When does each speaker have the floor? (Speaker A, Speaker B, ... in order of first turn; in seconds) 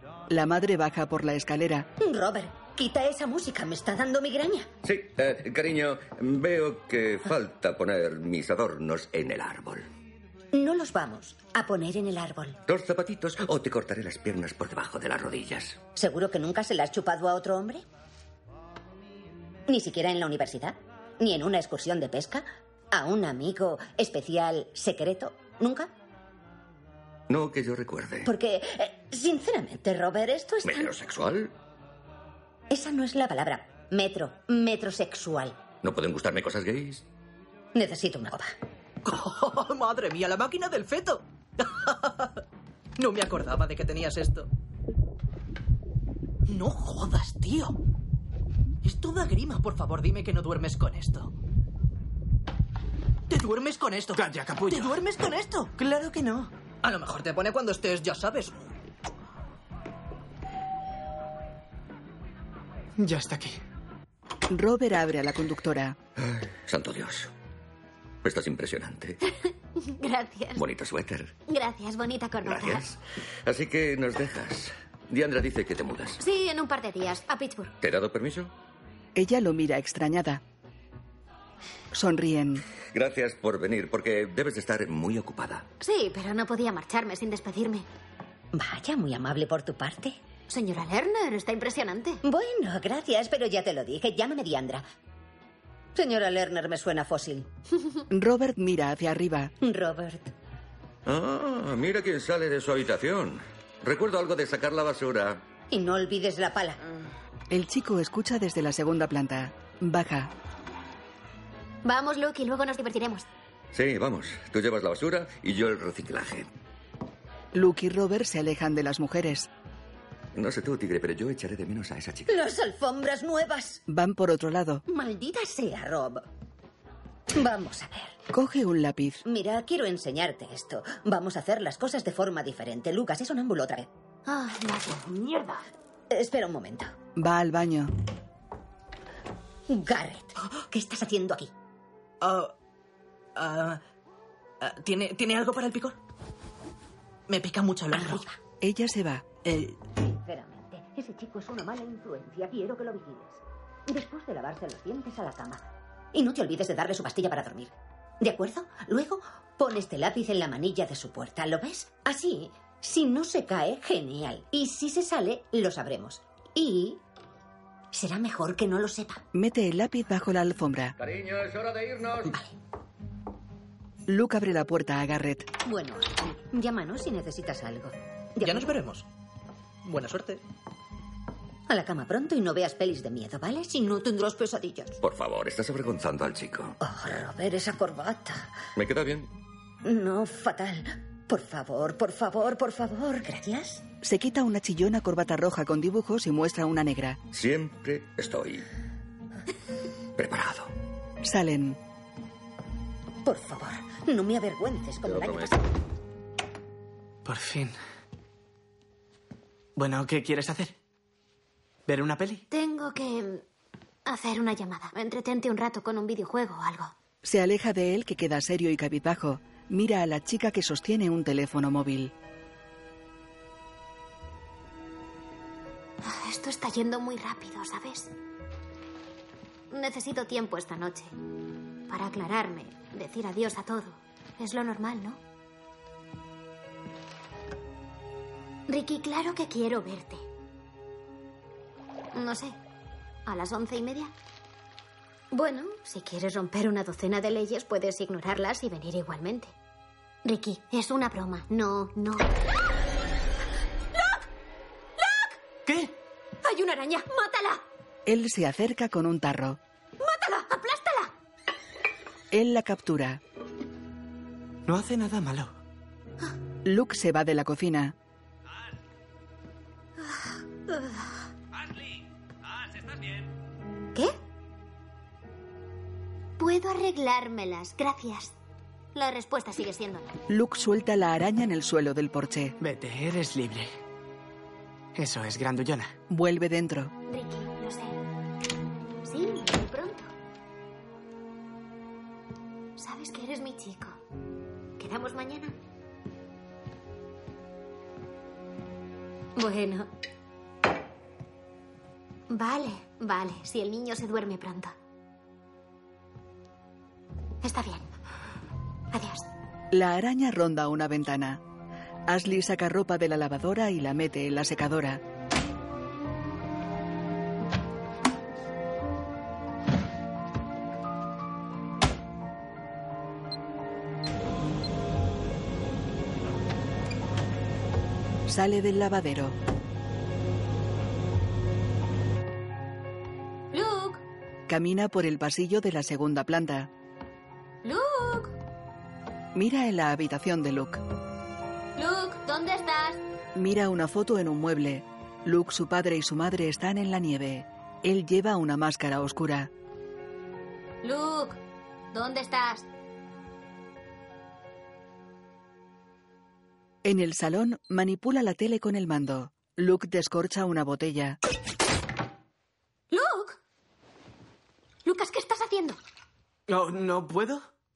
Speaker A: 0.3-1.9, 64.5-66.0, 79.2-80.4, 81.9-82.7, 98.1-99.5, 107.5-110.3, 117.5-119.5, 123.9-124.8, 128.3-129.2, 137.2-137.9, 148.6-149.3, 169.3-171.0, 174.1-175.5, 194.0-197.2, 201.2-201.8, 217.2-222.1, 258.1-259.6, 262.3-263.2, 266.6-267.9, 280.3-282.6, 286.1-286.9, 309.7-311.4, 312.1-315.0, 328.3-329.4, 334.5-336.7, 339.3-340.8, 343.3-349.5, 356.8-361.2
Speaker B: 2.0-4.7, 10.5-12.6, 15.9-17.9, 19.7-25.9, 28.3-30.9, 32.7-35.6, 37.8-38.5, 88.5-90.2, 92.2-94.8, 95.9-97.5, 99.6-100.3, 105.7-107.0, 122.3-123.8, 124.9-126.2, 127.3-128.2, 129.2-133.9, 136.1-136.9, 139.7-141.5, 147.9-148.3, 150.0-167.0, 167.9-169.2, 172.3-172.5, 175.7-178.8, 181.7-185.0, 186.8-188.6, 189.8-193.8, 203.2-205.7
Speaker C: 4.8-9.9, 12.7-15.8, 27.3-28.3, 30.6-31.5, 35.8-37.0, 66.2-67.3, 68.2-69.2, 70.6-71.3, 72.5-76.2, 77.8-78.5, 82.9-85.7, 101.1-105.4, 113.7-116.5, 120.3-122.3, 171.0-172.3, 185.0-186.8, 188.8-189.3, 197.3-198.7, 200.2-200.7
Speaker D: 39.0-42.4, 43.0-44.5, 46.5-47.8, 48.8-51.3, 53.3-55.7, 56.8-58.7, 135.2-135.6, 142.2-142.5, 143.4-143.8, 144.6-146.0, 147.3-148.3, 149.4-149.9, 178.4-179.1, 179.8-180.4
Speaker E: 54.1-55.0, 55.8-56.5, 63.0-63.6, 207.2-207.8, 209.8-210.7, 211.9-212.4, 255.7-255.9, 264.7-265.5, 282.6-283.7, 284.9-285.9, 366.5-367.4
Speaker F: 69.8-70.6, 71.5-72.9, 76.2-77.7, 85.8-87.9, 90.5-92.2, 111.8-113.3, 134.3-135.1, 212.5-213.4, 214.1-216.9, 226.0-228.1, 229.7-231.1, 231.9-235.2, 238.7-240.2, 242.1-242.6, 243.3-244.1, 245.3-249.5, 250.2-252.3, 253.9-254.2, 255.0-255.4, 256.4-257.6, 260.0-261.1, 270.0-271.1, 276.4-278.3, 278.9-280.1, 287.1-288.0, 289.0-290.1, 292.8-294.0, 294.8-295.6, 299.4-299.9, 302.3-304.7, 307.4-307.9, 308.9-309.3, 333.5-334.0, 337.6-338.3, 341.8-343.0, 350.8-351.4, 351.9-352.7, 362.9-363.4, 364.9-365.8